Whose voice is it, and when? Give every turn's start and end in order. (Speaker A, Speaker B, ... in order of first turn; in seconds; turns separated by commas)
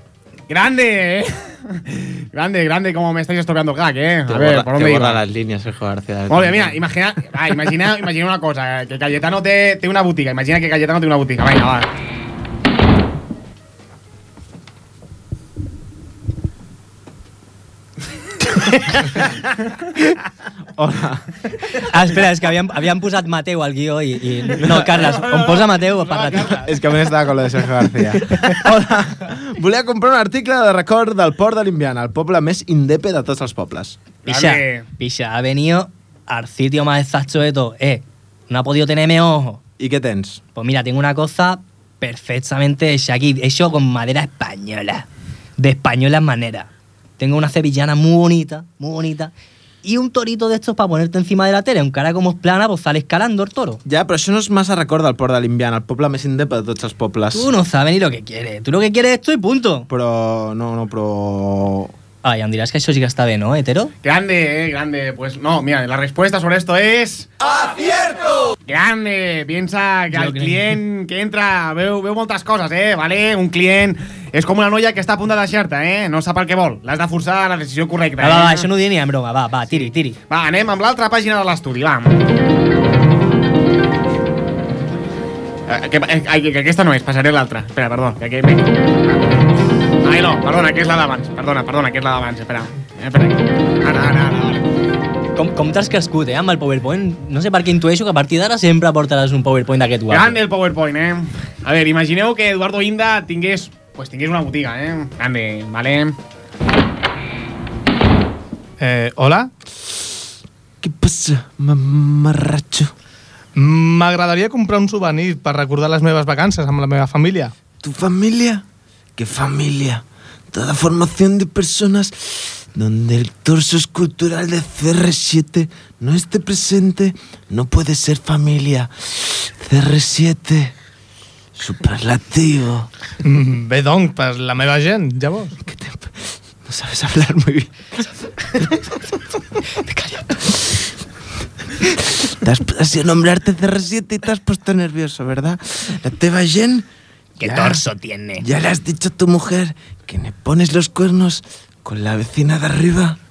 Speaker A: 0.5-5.2, Speaker B: 4.3-6.8, Speaker A: 6.3-11.9, Speaker B: 20.8-21.2, Speaker C: 21.8-26.6, Speaker A: 24.6-26.8, Speaker B: 26.6-34.0, Speaker A: 34.2-34.8, Speaker C: 34.3-39.6, Speaker B: 39.8-40.4, Speaker C: 40.5-45.0, Speaker C: 45.6-49.3, Speaker C: 49.8-53.8, Speaker B: 53.8-57.5, Speaker C: 57.3-59.9, Speaker B: 59.9-61.9, Speaker C: 62.2-63.9, Speaker A: 64.0-67.3, Speaker A: 68.7-78.7, Speaker C: 70.1-70.8, Speaker C: 78.2-80.2, Speaker A: 79.7-82.2, Speaker A: 85.7-89.2, Speaker A: 90.0-94.6, Speaker C: 95.3-100.4, Speaker A: 100.1-106.2, Speaker D: 108.8-109.5, Speaker B: 110.8-112.9, Speaker D: 113.5-117.5, Speaker B: 117.8-118.6, Speaker B: 119.2-130.7, Speaker B: 131.6-132.9, Speaker D: 133.2-135.6, Speaker B: 135.7-138.9, Speaker C: 139.8-140.6, Speaker B: 142.2-146.8, Speaker C: 147.4-148.4, Speaker B: 147.4-147.8, Speaker B: 148.4-153.2